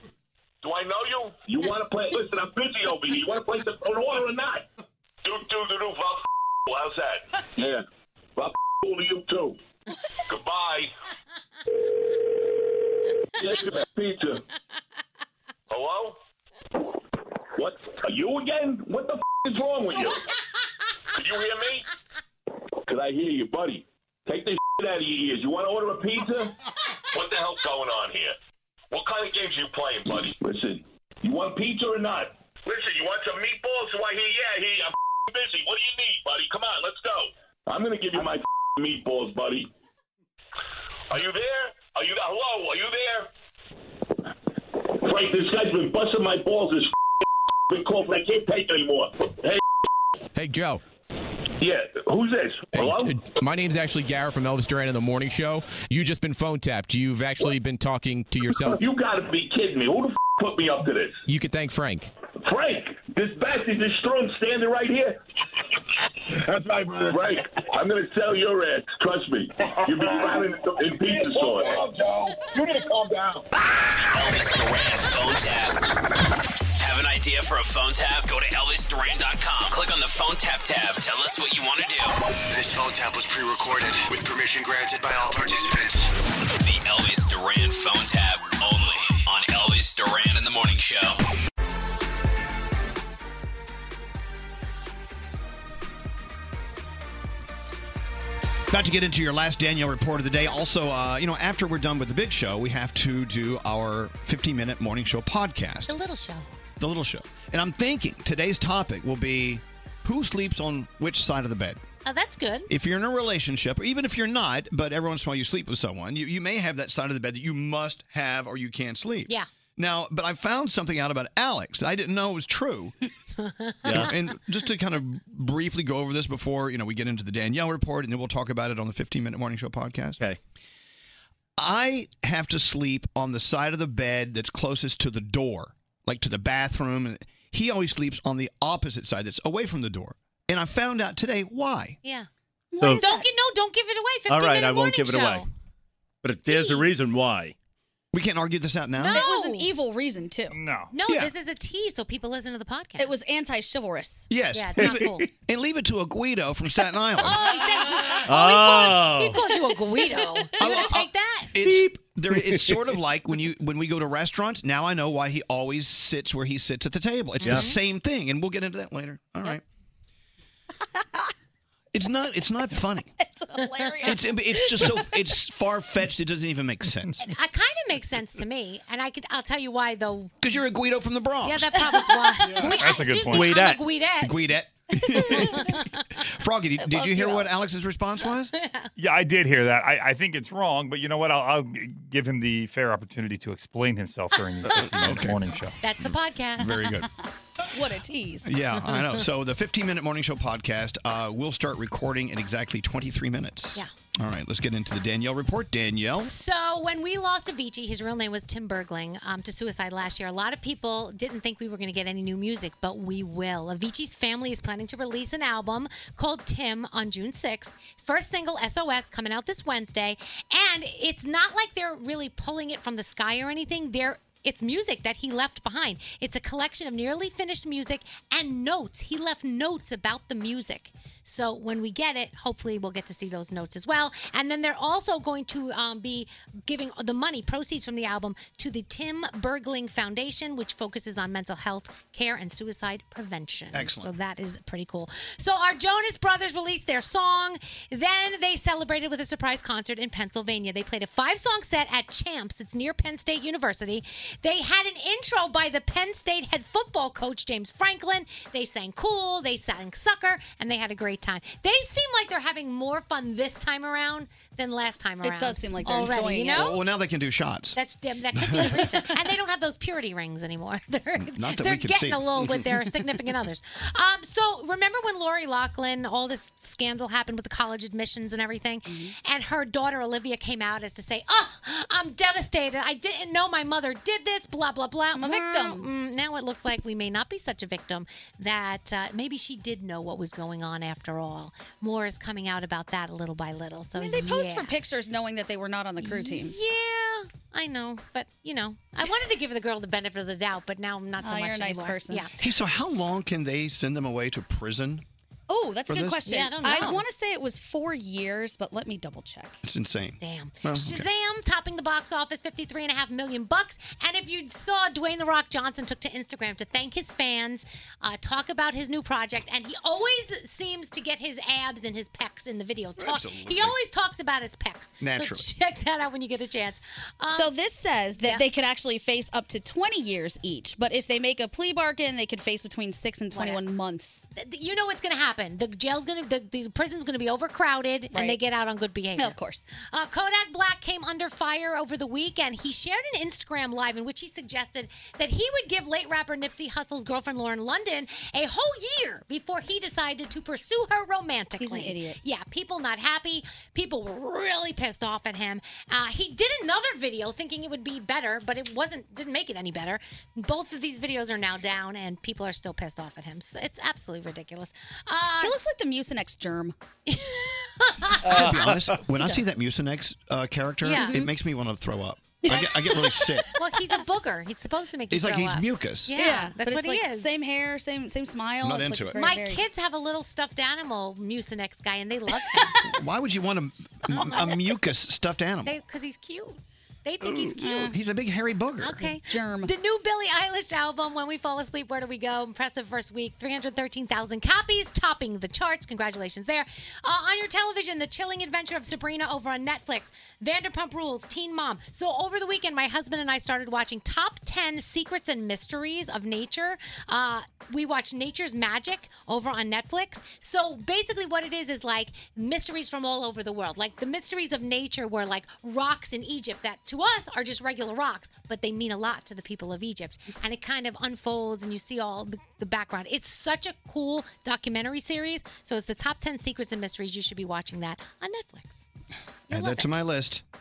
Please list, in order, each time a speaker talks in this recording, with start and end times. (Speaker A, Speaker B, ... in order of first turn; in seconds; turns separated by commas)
Speaker A: 0.6-4.7, Speaker A: 5.2-7.8, Speaker A: 8.4-9.6, Speaker A: 10.3-10.9, Speaker A: 13.4-14.4, Speaker A: 15.7-16.2, Speaker A: 17.6-20.3, Speaker A: 21.1-21.8, Speaker A: 22.8-26.6, Speaker A: 27.1-28.3, Speaker A: 28.9-39.7, Speaker A: 41.1-43.3, Speaker A: 44.8-47.0, Speaker A: 47.7-49.6, Speaker B: 50.3-50.8, Speaker A: 51.6-53.1, Speaker B: 52.7-58.8, Speaker A: 58.7-61.2, Speaker B: 61.3-62.1, Speaker A: 62.4-65.2, Speaker A: 67.1-71.8, Speaker C: 73.9-75.8, Speaker C: 76.8-82.2, Speaker D: 82.5-86.1, Speaker C: 86.5-91.2, Speaker E: 98.7-105.9, Speaker F: 105.9-106.5, Speaker E: 106.8-111.8, Speaker F: 112.0-112.7, Speaker E: 112.7-122.9, Speaker F: 123.4-124.1, Speaker G: 123.8-124.1, Speaker E: 123.9-130.2, Speaker E: 131.6-142.0, Speaker F: 142.0-145.4, Speaker G: 142.8-143.0, Speaker H: 142.9-143.2, Speaker G: 144.3-145.4, Speaker G: 146.2-147.5, Speaker F: 146.4-147.2, Speaker E: 148.1-149.2, Speaker F: 149.0-149.7, Speaker H: 149.1-150.6, Speaker I: 150.5-150.9, Speaker F: 150.9-153.1, Speaker H: 153.0-154.3, Speaker E: 154.3-157.4, Speaker F: 154.5-155.3, Speaker F: 157.2-161.5, Speaker H: 157.2-158.3, Speaker G: 158.3-159.4, Speaker E: 160.6-169.6, Speaker G: 167.4-167.7, Speaker F: 167.4-167.8, Speaker E: 171.9-173.1, Speaker H: 173.2-174.2, Speaker F: 173.6-174.1, Speaker E: 174.0-177.2, Speaker F: 177.2-180.3, Speaker E: 180.4-181.8, Speaker F: 181.4-184.4, Speaker I: 182.6-183.5, Speaker G: 183.3-183.8, Speaker E: 184.2-188.5, Speaker F: 185.1-186.0, Speaker H: 186.8-187.6, Speaker F: 188.6-188.8, Speaker I: 189.0-195.7, Speaker E: 194.8-195.4, Speaker F: 195.8-197.0, Speaker E: 196.1-197.1, Speaker H: 197.7-198.5, Speaker E: 198.4-206.3, Speaker F: 206.1-266.8, Speaker E: 243.7-244.1, Speaker H: 265.2-266.7, Speaker E: 266.5-267.8, Speaker F: 267.8-294.7, Speaker E: 268.3-268.8, Speaker H: 268.6-269.0, Speaker E: 271.2-272.6, Speaker H: 278.9-279.1, Speaker H: 285.1-285.9, Speaker H: 293.9-296.5, Speaker F: 296.0-302.4, Speaker H: 301.2-302.3, Speaker E: 302.4-305.0, Speaker H: 305.5-309.6, Speaker E: 305.9-306.2, Speaker F: 306.2-307.0, Speaker E: 309.6-311.1, Speaker F: 310.2-327.5, Speaker E: 323.0-323.7, Speaker E: 325.0-325.4, Speaker H: 327.3-334.2, Speaker F: 328.2-328.4, Speaker F: 333.3-333.6, Speaker F: 334.4-365.6, Speaker H: 338.1-338.4, Speaker H: 339.2-339.7, Speaker H: 351.6-352.2, Speaker H: 365.4-366.8, Speaker F: 367.1-368.5, Speaker G: 368.2-369.0, Speaker E: 368.3-373.5, Speaker F: 370.8-371.2, Speaker H: 370.9-371.3, Speaker F: 373.2-377.4, Speaker E: 375.1-376.1, Speaker H: 376.1-379.6, Speaker E: 378.6-379.2, Speaker F: 379.1-382.8, Speaker E: 382.8-385.7, Speaker F: 384.2-384.5, Speaker F: 385.6-387.9, Speaker H: 387.6-387.9, Speaker E: 387.8-389.0, Speaker F: 388.8-428.9, Speaker H: 389.0-389.7, Speaker E: 429.5-430.4, Speaker F: 429.5-429.9